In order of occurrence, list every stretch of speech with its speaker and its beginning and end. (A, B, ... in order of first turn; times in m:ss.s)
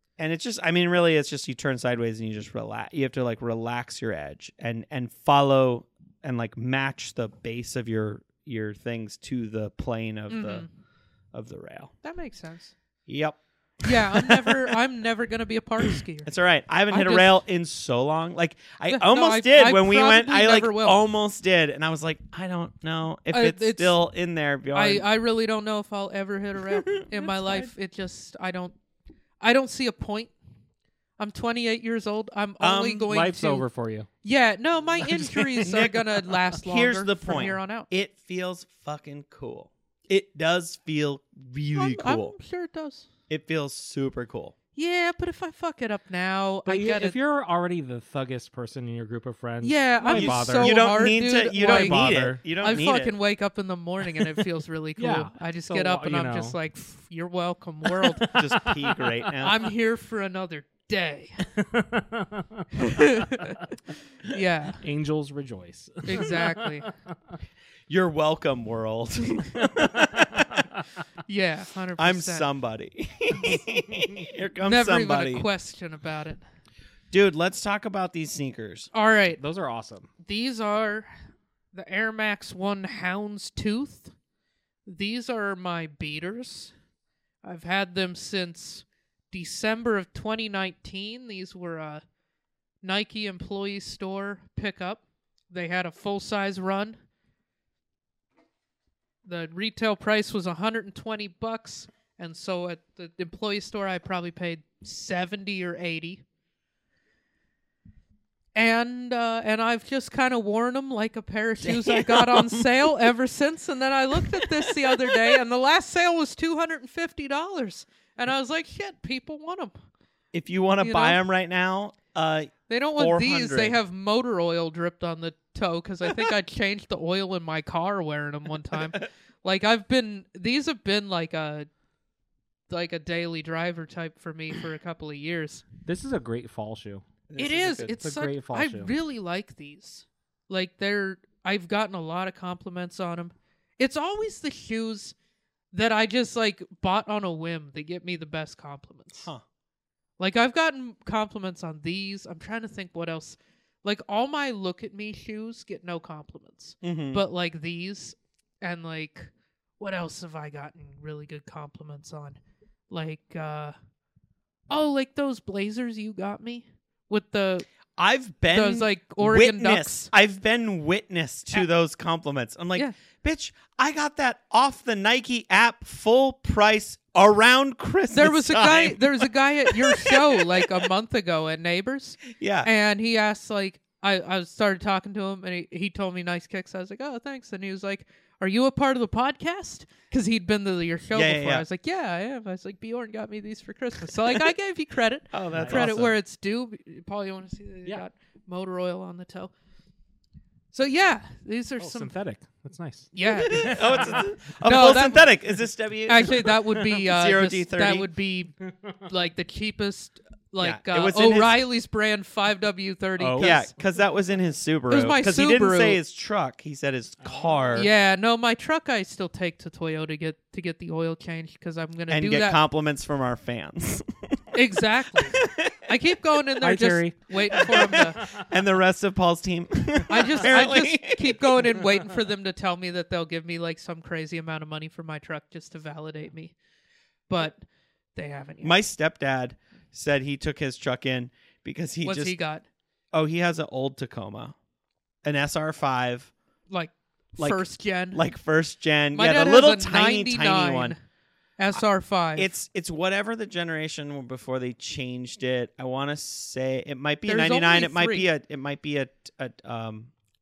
0:00.2-0:10.7 A
0:10.3-0:10.7 B
0:11.3-0:11.9 A
0:12.0-0:12.7 B
0:13.1-0:14.8 A
0:13.8-0:16.3 B
0:15.8-0:25.1 A
0:16.9-0:17.4 B
0:18.9-0:21.0 B
0:23.3-0:24.0 B
0:24.7-0:28.8 B
0:26.7-0:27.0 A
0:27.2-0:27.7 C
0:29.4-0:30.3 B
0:31.2-0:33.7 B
0:32.6-0:33.1 A
0:33.1-0:34.1 C
0:34.2-0:37.9 B
0:35.3-0:42.4 A
0:41.7-0:43.1 B
0:43.3-0:44.6 A
0:44.8-0:47.2 B
0:46.7-0:50.8 C
0:49.6-0:58.3 B
0:50.1-0:53.2 A
0:51.6-0:52.4 C
0:55.0-0:56.6 C
0:57.8-0:59.3 C
0:58.3-0:59.6 A
0:59.4-1:01.4 B
1:01.5-1:02.7 C
1:02.8-1:03.6 B
1:04.2-1:04.8 B
1:04.8-1:07.1 C
1:06.1-1:06.9 B
1:07.9-1:10.6 A
1:09.8-1:10.8 C
1:11.3-1:12.5 B
1:12.0-1:15.5 A
1:14.6-1:16.4 B
1:17.1-1:18.9 A
1:18.9-1:19.4 B
1:19.4-1:20.1 C
1:20.2-1:21.1 B
1:21.7-1:24.1 B
1:24.9-1:26.7 B
1:27.4-1:32.0 B
1:32.8-1:37.0 B
1:39.2-1:46.2 B
1:48.6-1:59.7 B
1:51.6-1:52.8 A
1:54.2-1:55.4 A
2:00.3-2:03.8 A
2:00.8-2:01.2 B
2:02.7-2:11.7 B
2:08.7-2:09.0 A
2:12.7-2:15.7 B
2:15.8-2:17.0 C
2:17.3-2:18.0 A
2:17.4-2:25.2 B
2:18.0-2:19.0 C
2:25.7-2:29.3 B
2:30.2-2:42.4 B
2:36.8-2:37.2 A
2:42.9-2:43.7 B
2:44.7-2:47.7 B
2:48.0-3:00.9 A
2:48.5-2:50.1 B
2:58.1-3:19.5 B
3:02.3-3:02.7 A
3:11.1-3:11.7 A
3:15.3-3:16.2 A
3:15.5-3:16.0 C
3:20.7-3:22.1 B
3:21.8-3:24.3 C
3:23.1-3:25.4 B
3:23.3-3:28.1 A
3:26.1-3:28.5 B
3:29.1-3:33.7 B
3:30.6-3:31.6 A
3:33.2-3:33.6 C
3:33.4-3:37.9 A
3:34.9-3:36.0 B
3:37.2-3:37.9 C
3:37.7-3:42.6 B
3:42.1-3:44.5 A
3:44.5-3:48.4 B
3:45.2-3:45.9 A
3:46.6-3:47.2 C
3:47.5-3:51.8 A
3:50.1-3:56.5 B
3:57.3-3:57.6 B
3:58.2-3:58.8 B
3:58.6-4:02.4 A
4:02.0-4:02.6 B
4:03.1-4:04.6 A
4:05.2-4:06.3 A
4:06.7-4:08.2 B
4:07.4-4:11.0 A
4:09.1-4:11.0 B
4:11.6-4:12.5 B
4:12.4-4:20.1 A
4:17.3-4:18.3 B